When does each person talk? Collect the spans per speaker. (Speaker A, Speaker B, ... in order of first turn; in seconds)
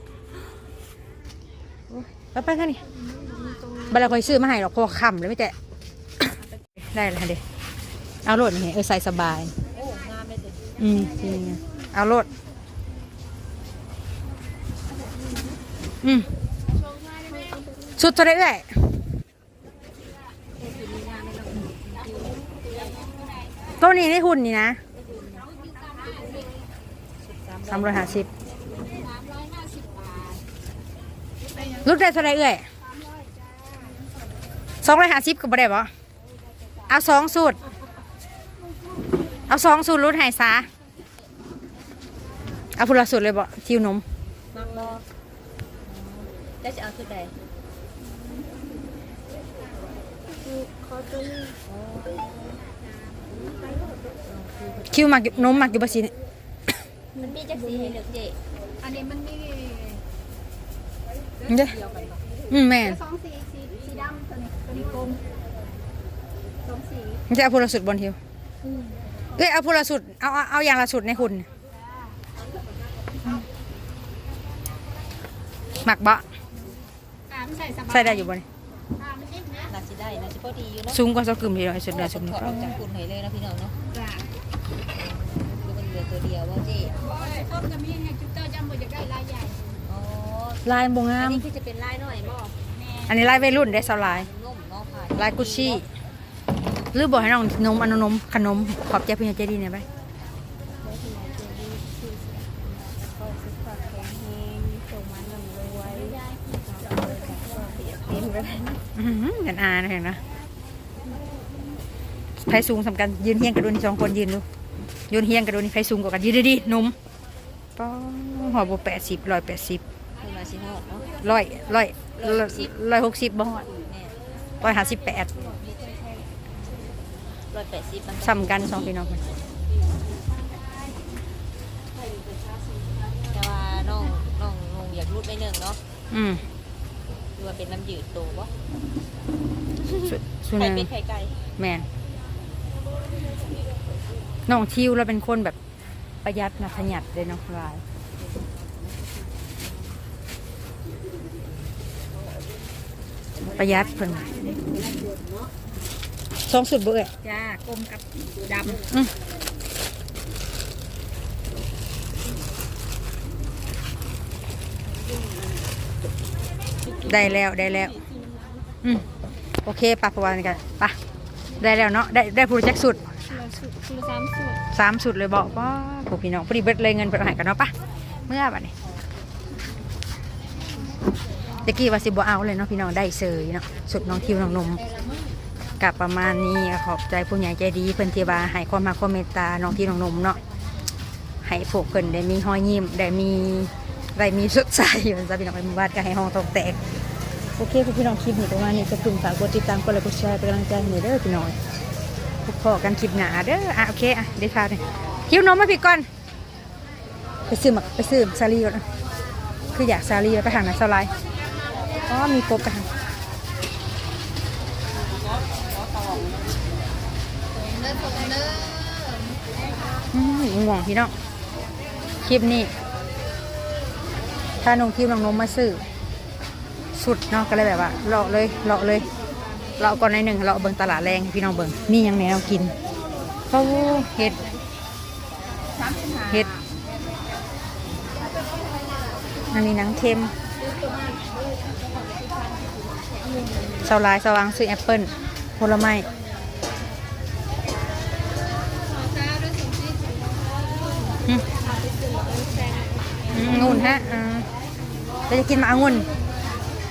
Speaker A: 1.9-2.8, 3.9-5.5, 6.9-7.4, 8.2-9.5, 10.8-12.3, 16.0-16.3, 18.0-18.7, 23.8-24.8, 27.7-28.3, 31.8-32.6, 34.8-35.9, 36.9-37.6, 39.5-40.7, 42.8-44.0, 54.9-56.1, 61.5-61.8, 62.5-63.0, 67.3-68.2, 69.3-71.5, 75.8-76.2, 77.8-78.5, 80.9-82.8, 90.6-91.4, 93.0-94.3, 95.2-95.8, 96.9-99.8, 108.9-110.2, 112.4-114.4, 115.1-117.0, 117.8-119.8, 121.2-123.7, 124.6-125.3, 128.2-129.2, 136.1-136.4, 140.0-140.9, 141.6-141.8, 144.5-145.6, 146.2-147.8, 153.5-154.3, 156.5-157.1, 158.7-159.1, 167.0-168.0, 169.6-171.0, 171.6-173.1, 174.7-177.7, 178.3-178.7, 181.6-184.9, 185.8-190.4, 191.4-196.8, 197.6-201.6, 202.4-206.1, 207.5-208.8, 209.7-211.1, 212.1-212.9, 220.1-221.1, 222.2-222.7, 224.6-225.8, 226.9-229.1, 229.8-232.7, 233.5-234.4, 239.5-240.3, 243.8-246.1, 253.3-254.5, 255.3-256.1
Speaker B: 3.2-3.9, 17.3-17.7, 50.4-51.6, 57.2-58.1, 58.9-60.0, 63.1-65.2, 77.3-78.0, 87.3-89.6, 173.3-174.6, 243.4-243.8, 249.2-249.7, 251.5-254.0
Speaker C: 9.7-10.8, 20.6-23.1, 25.0-26.5, 27.2-28.3, 44.5-45.0, 45.9-47.3, 51.6-52.6, 54.2-55.7, 57.2-58.4, 61.5-62.2, 79.7-81.0, 81.9-83.8, 85.0-87.0, 89.8-92.6, 93.5-95.8, 101.0-101.7, 102.9-108.8, 120.2-121.1, 122.2-122.7, 123.8-124.2, 125.4-125.7, 127.5-129.1, 133.3-135.8, 137.3-138.5, 139.9-141.3, 157.2-158.0, 184.9-185.2